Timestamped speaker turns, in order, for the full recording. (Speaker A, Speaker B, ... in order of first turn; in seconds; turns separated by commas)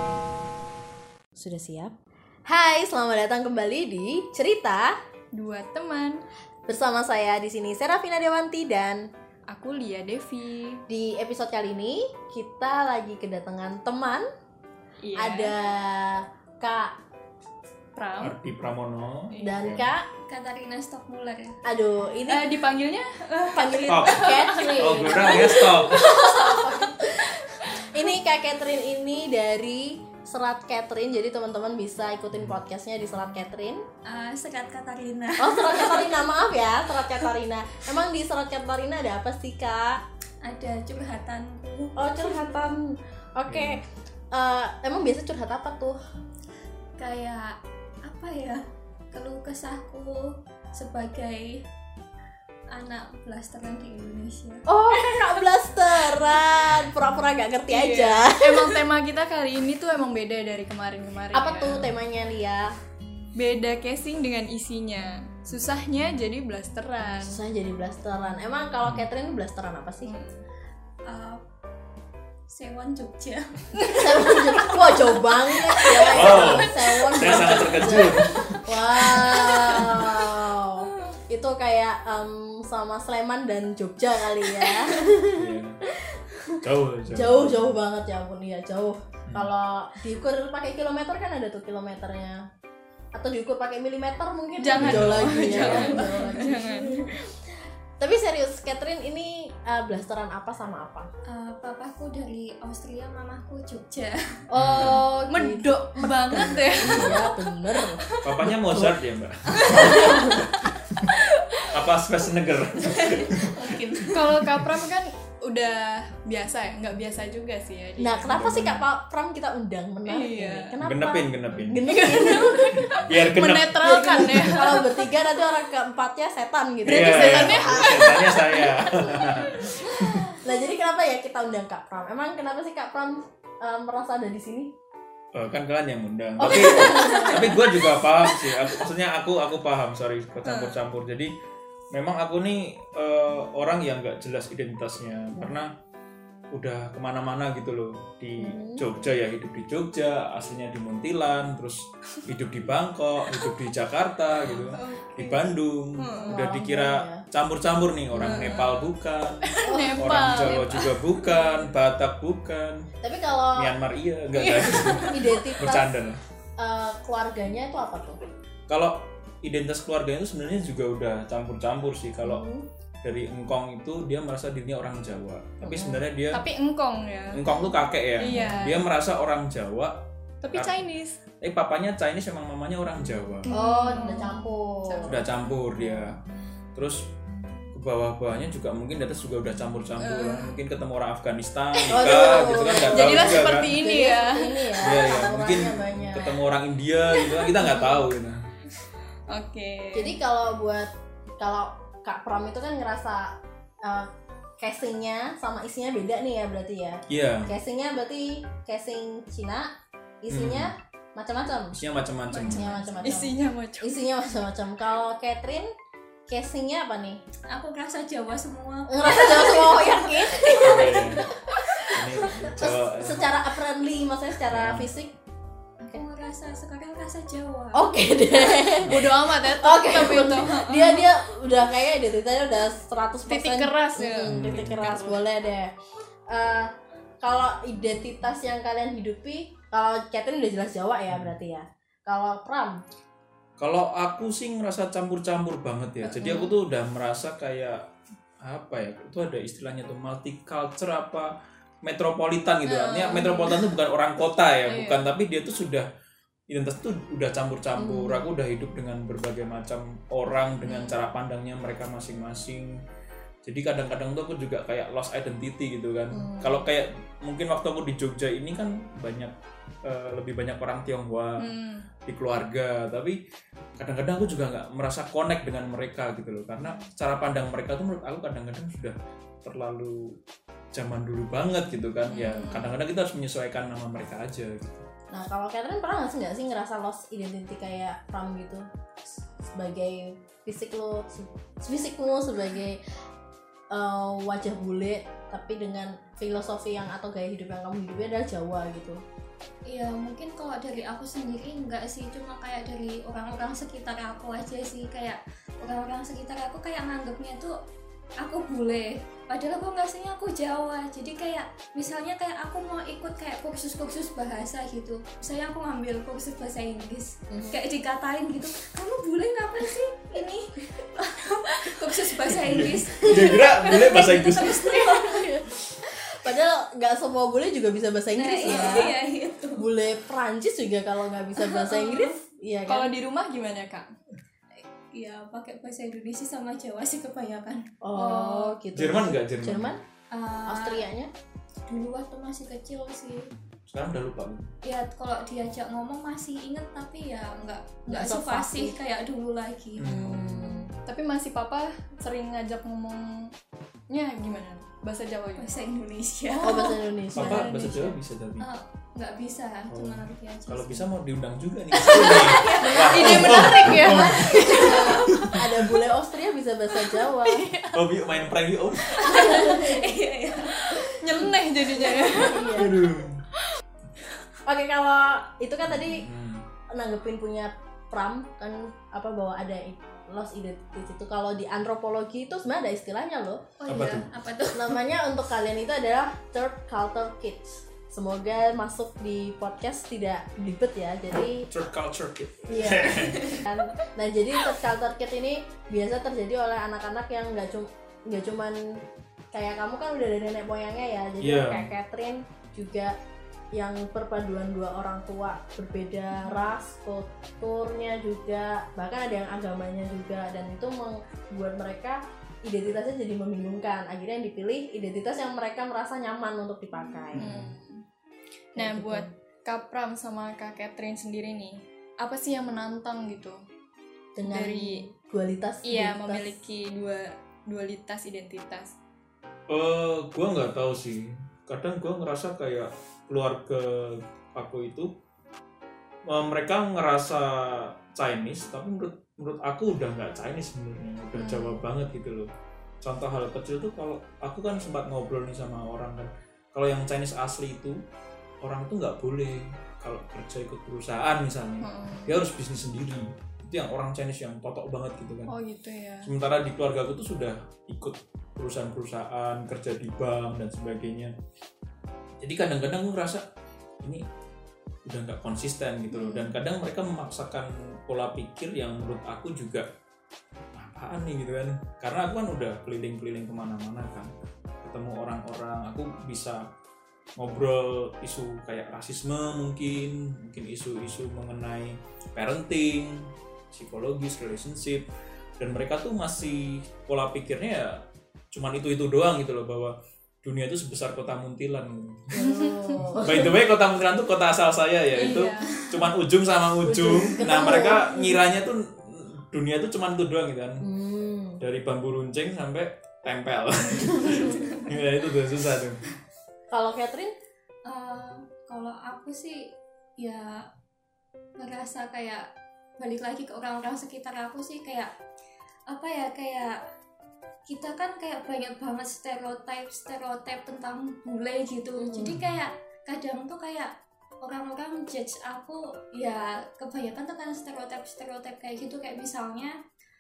Speaker A: 1.4-1.9, Speaker A: 2.5-5.0, Speaker B: 5.3-6.2, Speaker A: 6.7-9.1, Speaker B: 9.5-10.8, Speaker A: 10.9-14.3, Speaker B: 15.0-15.5, Speaker A: 15.2-17.0, Speaker B: 17.9-18.3, Speaker C: 18.2-19.9, Speaker B: 19.3-19.7, Speaker A: 19.4-20.1, Speaker D: 20.2-21.6, Speaker A: 21.6-22.4, Speaker B: 22.3-27.1, Speaker A: 23.5-33.8, Speaker D: 23.6-24.7, Speaker C: 23.9-26.1, Speaker D: 34.0-36.3, Speaker A: 35.4-40.0, Speaker D: 40.4-42.5, Speaker A: 42.0-46.0, Speaker C: 43.5-43.8, Speaker D: 47.0-51.7, Speaker D: 52.7-54.6, Speaker A: 54.7-58.8, Speaker B: 57.7-61.9, Speaker A: 61.3-62.7, Speaker B: 63.3-67.4, Speaker A: 67.2-70.1, Speaker B: 70.0-70.4, Speaker D: 71.0-71.4, Speaker D: 72.5-74.0, Speaker B: 73.8-74.7, Speaker A: 73.9-86.6, Speaker B: 75.9-78.0, Speaker C: 76.1-78.6, Speaker B: 79.0-80.1, Speaker C: 85.3-85.8, Speaker C: 86.6-87.8, Speaker A: 87.1-92.4, Speaker A: 93.1-97.4, Speaker B: 94.6-97.1, Speaker C: 94.7-96.0, Speaker D: 95.6-96.3, Speaker A: 98.0-101.1, Speaker D: 101.3-104.2, Speaker A: 104.5-108.0, Speaker C: 104.6-105.0, Speaker B: 104.8-108.5, Speaker C: 106.8-107.2, Speaker C: 108.2-111.1, Speaker A: 108.6-109.0, Speaker B: 109.6-110.5, Speaker A: 109.8-110.4, Speaker B: 111.1-111.8, Speaker C: 111.7-114.7, Speaker D: 112.8-114.5, Speaker B: 114.1-118.4, Speaker A: 118.0-123.0, Speaker C: 118.3-118.8, Speaker B: 120.0-120.7, Speaker C: 120.8-122.0, Speaker B: 121.9-125.0, Speaker C: 122.7-124.4, Speaker A: 123.8-134.7, Speaker B: 126.8-129.8, Speaker C: 126.9-130.2, Speaker C: 135.3-141.3, Speaker A: 136.4-137.7, Speaker B: 136.8-137.2, Speaker B: 140.4-140.8, Speaker C: 141.9-145.7, Speaker C: 146.5-162.9, Speaker A: 148.4-148.8, Speaker B: 154.5-155.3, Speaker B: 156.0-156.4, Speaker A: 156.3-157.2, Speaker B: 158.1-158.9, Speaker A: 158.2-158.4, Speaker B: 159.4-161.5, Speaker A: 159.6-160.3, Speaker A: 163.0-163.7, Speaker C: 163.5-166.2, Speaker B: 164.3-165.5, Speaker A: 165.1-165.9, Speaker A: 166.6-168.2, Speaker C: 168.7-172.4, Speaker A: 172.2-172.7, Speaker C: 173.0-176.4, Speaker A: 175.6-176.0, Speaker B: 176.3-177.4, Speaker C: 177.3-180.8, Speaker B: 178.2-178.8, Speaker B: 180.4-181.2, Speaker C: 181.4-183.5, Speaker A: 183.5-185.2, Speaker B: 183.5-185.2, Speaker D: 183.8-184.3, Speaker C: 185.1-186.2, Speaker C: 186.7-187.1, Speaker C: 187.7-193.8, Speaker B: 190.0-190.5, Speaker B: 191.8-195.2, Speaker A: 191.9-196.4, Speaker C: 194.8-198.5, Speaker A: 197.6-198.1, Speaker B: 199.3-200.1, Speaker A: 199.9-209.7, Speaker C: 207.1-207.5, Speaker A: 210.2-211.8, Speaker C: 210.3-210.7, Speaker C: 211.8-212.8, Speaker B: 212.3-213.9, Speaker A: 212.3-215.7, Speaker A: 216.3-217.2, Speaker D: 217.5-221.1, Speaker A: 218.9-221.8, Speaker C: 220.6-221.2, Speaker C: 221.9-223.3, Speaker A: 222.6-225.1, Speaker C: 224.5-224.9, Speaker D: 225.8-228.0, Speaker A: 227.7-235.7, Speaker B: 228.8-231.1, Speaker C: 228.8-229.1, Speaker B: 233.3-235.0, Speaker C: 234.2-235.1, Speaker A: 236.3-236.7, Speaker A: 237.2-242.8, Speaker C: 243.6-247.8, Speaker B: 246.0-246.5, Speaker C: 248.4-251.3, Speaker C: 251.8-255.9, Speaker B: 252.7-253.8, Speaker B: 254.7-255.1, Speaker C: 256.5-262.8, Speaker A: 257.8-258.2, Speaker B: 260.7-260.9, Speaker C: 263.4-269.3, Speaker A: 266.1-266.6, Speaker C: 269.8-271.5, Speaker B: 271.4-271.9, Speaker C: 272.1-273.2, Speaker C: 273.8-280.2, Speaker C: 280.7-284.9, Speaker B: 282.1-282.8, Speaker A: 285.1-288.7, Speaker A: 289.5-292.8, Speaker A: 293.7-299.0, Speaker D: 299.7-307.6, Speaker D: 308.2-325.2, Speaker A: 317.3-317.6, Speaker C: 322.3-325.0, Speaker A: 324.7-328.9, Speaker D: 328.2-329.6, Speaker B: 328.5-328.9, Speaker A: 329.6-332.9, Speaker B: 331.6-332.1, Speaker B: 332.7-333.9, Speaker D: 334.9-337.7, Speaker A: 337.8-339.8, Speaker B: 337.9-338.6, Speaker C: 338.7-339.7, Speaker D: 340.1-340.8, Speaker A: 340.5-341.1, Speaker D: 341.7-343.3, Speaker C: 343.7-344.5, Speaker D: 344.6-349.9, Speaker A: 347.9-348.8, Speaker C: 349.8-350.8, Speaker A: 349.8-350.7, Speaker B: 350.9-353.3, Speaker B: 353.9-355.6, Speaker D: 355.4-356.8, Speaker B: 356.4-357.9, Speaker A: 356.4-357.7, Speaker C: 357.1-358.5, Speaker D: 358.4-360.9, Speaker C: 359.7-365.4, Speaker B: 361.8-365.2, Speaker D: 361.8-364.9, Speaker A: 362.6-367.5, Speaker B: 366.7-367.9, Speaker C: 367.7-369.1, Speaker D: 369.0-370.8, Speaker A: 369.1-369.9, Speaker B: 370.6-372.7, Speaker A: 371.8-372.7, Speaker C: 372.5-373.2, Speaker A: 374.5-376.1, Speaker C: 375.7-376.4, Speaker A: 376.7-383.4, Speaker D: 383.6-384.8, Speaker C: 383.7-384.1, Speaker A: 384.5-391.5, Speaker C: 391.5-393.4, Speaker A: 392.5-398.8, Speaker D: 392.8-393.4, Speaker A: 399.3-402.9, Speaker C: 401.2-401.7, Speaker A: 403.5-417.3, Speaker C: 417.1-417.6, Speaker B: 417.1-417.8, Speaker B: 418.6-423.4, Speaker A: 418.6-419.1, Speaker A: 424.2-426.3, Speaker B: 424.3-424.8, Speaker B: 425.6-428.8, Speaker C: 429.5-434.9, Speaker C: 436.1-442.3, Speaker B: 441.1-441.6, Speaker C: 442.8-447.8, Speaker C: 448.4-455.3, Speaker B: 451.6-452.2, Speaker B: 455.3-456.1, Speaker C: 456.0-461.1, Speaker C: 462.2-463.2, Speaker C: 464.9-469.7, Speaker A: 465.9-466.3, Speaker C: 470.5-474.1, Speaker C: 474.6-476.5, Speaker C: 477.2-484.9, Speaker C: 485.4-492.2, Speaker A: 492.1-493.4, Speaker B: 492.1-492.8, Speaker C: 492.8-500.6, Speaker B: 495.0-495.9, Speaker A: 496.6-497.9, Speaker A: 500.6-501.4, Speaker C: 501.4-505.8, Speaker A: 503.9-504.2, Speaker D: 504.4-504.7, Speaker A: 506.5-507.1, Speaker D: 507.7-510.4, Speaker D: 511.4-512.3, Speaker D: 512.8-514.9, Speaker D: 515.7-516.6, Speaker D: 517.5-529.6, Speaker A: 521.8-522.1, Speaker C: 522.0-522.4